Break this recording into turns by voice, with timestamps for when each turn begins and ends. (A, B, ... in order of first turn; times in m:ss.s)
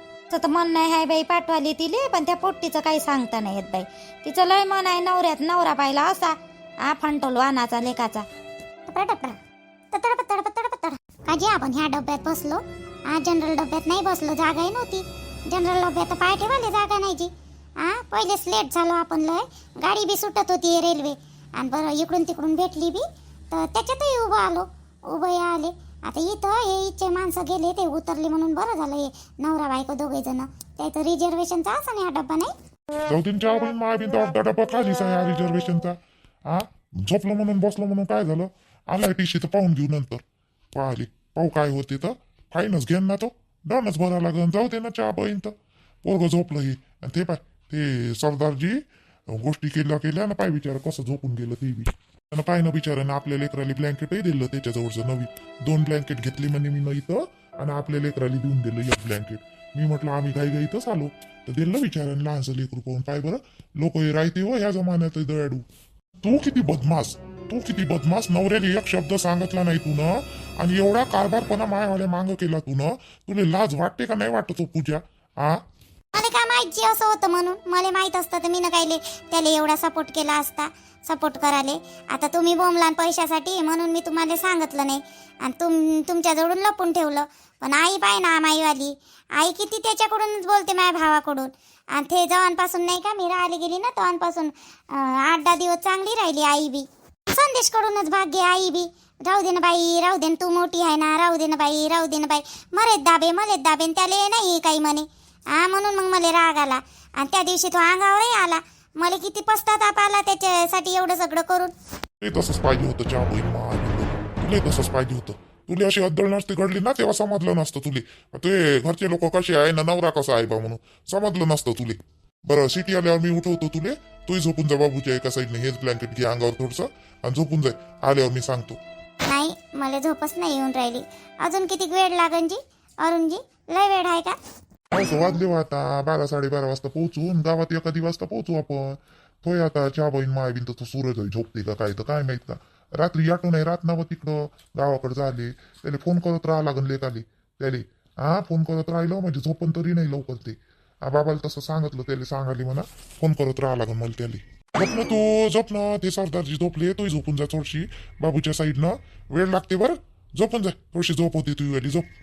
0:00.3-0:06.3 A
0:06.8-0:08.2 A
0:08.9-0:09.4 B
0:09.9-0:32.5 B
0:33.1-0:36.0 C
0:36.5-0:40.2 C
0:40.7-0:45.5 C
0:46.0-0:48.8 C
0:49.3-1:05.6 C
1:06.2-1:15.6 C
1:16.1-1:51.7 B
1:52.2-2:08.8 C
2:09.3-2:14.4 B
2:14.9-2:42.0 C